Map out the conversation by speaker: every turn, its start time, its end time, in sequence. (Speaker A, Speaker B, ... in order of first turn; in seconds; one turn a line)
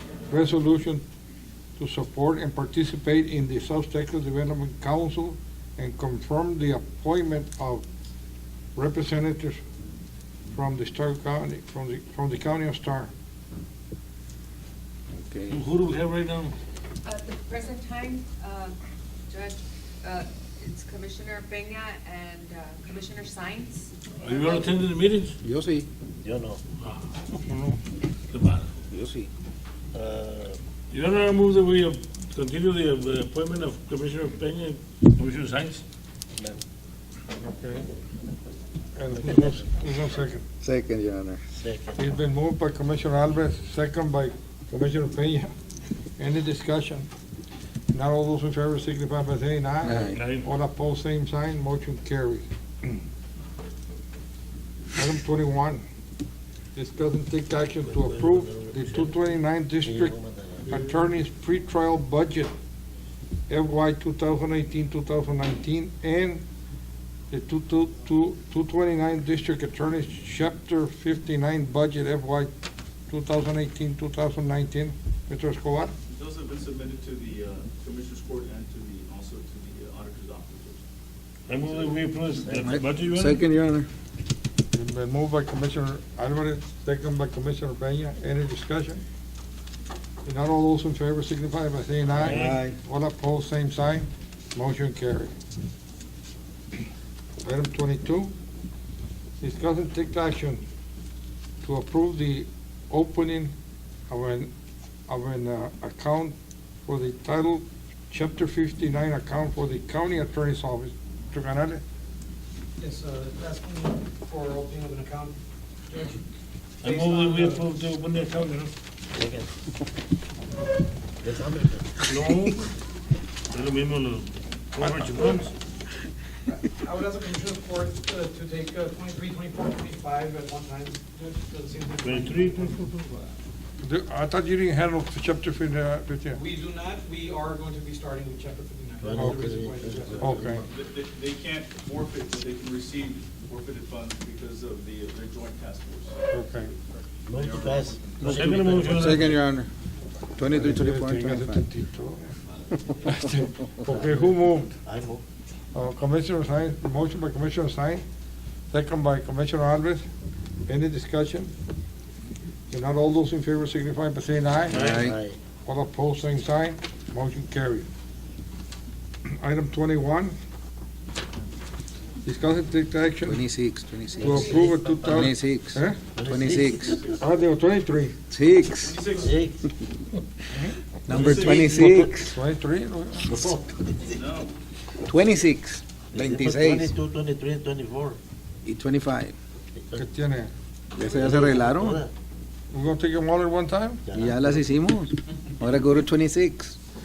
Speaker A: 0.3-1.0
Speaker A: 1.8-7.8
Speaker A: 8.8-9.6
Speaker A: 10.5-13.1
Speaker B: 15.1-15.7
Speaker C: 15.5-16.5
Speaker D: 17.1-18.7
Speaker D: 19.3-23.9
Speaker C: 24.2-25.4
Speaker B: 25.4-25.9
Speaker E: 26.2-26.6
Speaker A: 27.3-27.8
Speaker C: 28.3-28.7
Speaker B: 28.9-29.3
Speaker E: 29.9-30.6
Speaker C: 30.9-35.8
Speaker A: 37.4-37.9
Speaker A: 39.0-40.5
Speaker E: 39.3-39.6
Speaker B: 40.6-41.4
Speaker E: 41.6-42.0
Speaker A: 42.0-45.5
Speaker A: 46.2-47.1
Speaker A: 47.9-52.5
Speaker B: 49.8-50.2
Speaker C: 50.1-50.5
Speaker A: 55.0-55.8
Speaker A: 56.7-60.2
Speaker E: 57.8-59.1
Speaker E: 59.8-60.8
Speaker A: 60.7-62.5
Speaker A: 63.5-66.4
Speaker A: 67.3-72.5
Speaker A: 73.1-75.9
Speaker F: 76.1-80.8
Speaker C: 81.5-83.4
Speaker F: 81.7-82.0
Speaker E: 82.5-82.8
Speaker B: 82.5-83.9
Speaker A: 84.7-89.0
Speaker A: 90.2-95.3
Speaker B: 92.2-92.8
Speaker A: 97.4-98.3
Speaker A: 99.4-100.6
Speaker A: 101.6-103.5
Speaker A: 104.1-104.5
Speaker A: 105.1-106.3
Speaker A: 106.9-111.8
Speaker G: 112.8-115.4
Speaker G: 115.9-116.2
Speaker C: 116.8-118.7
Speaker G: 116.8-117.7
Speaker E: 119.1-119.5
Speaker E: 121.2-122.1
Speaker C: 122.1-122.6
Speaker C: 123.5-125.5
Speaker G: 126.5-133.3
Speaker C: 132.0-133.0
Speaker A: 133.8-136.4
Speaker G: 136.3-140.6
Speaker E: 139.0-140.7
Speaker A: 140.2-140.6
Speaker F: 140.6-146.8
Speaker A: 146.3-146.7
Speaker E: 147.3-149.3
Speaker F: 147.3-149.1
Speaker C: 148.2-149.3
Speaker B: 148.9-149.7
Speaker B: 150.3-151.6
Speaker A: 150.5-152.3
Speaker A: 153.0-154.8
Speaker E: 153.9-155.2
Speaker A: 155.7-158.0
Speaker A: 158.7-160.1
Speaker A: 160.7-161.5
Speaker A: 162.7-164.8
Speaker B: 164.7-165.2
Speaker E: 164.8-165.4
Speaker A: 165.7-167.9
Speaker A: 169.3-170.3
Speaker A: 172.2-173.4
Speaker B: 173.2-177.0
Speaker A: 174.2-176.0
Speaker E: 174.2-175.3
Speaker E: 176.1-177.1
Speaker F: 176.6-177.3
Speaker A: 177.2-178.2
Speaker B: 178.3-179.0
Speaker F: 178.8-179.2
Speaker E: 179.1-179.6
Speaker B: 181.1-182.3
Speaker C: 181.1-182.1
Speaker F: 181.2-182.0
Speaker A: 182.2-183.4
Speaker E: 183.2-184.2
Speaker F: 184.1-184.5
Speaker B: 185.0-186.9
Speaker E: 186.1-188.2
Speaker B: 188.6-189.3
Speaker E: 189.7-190.0
Speaker A: 189.9-190.5
Speaker B: 190.9-192.0
Speaker E: 191.0-192.1
Speaker A: 192.7-194.0
Speaker E: 194.1-194.6
Speaker B: 194.1-196.8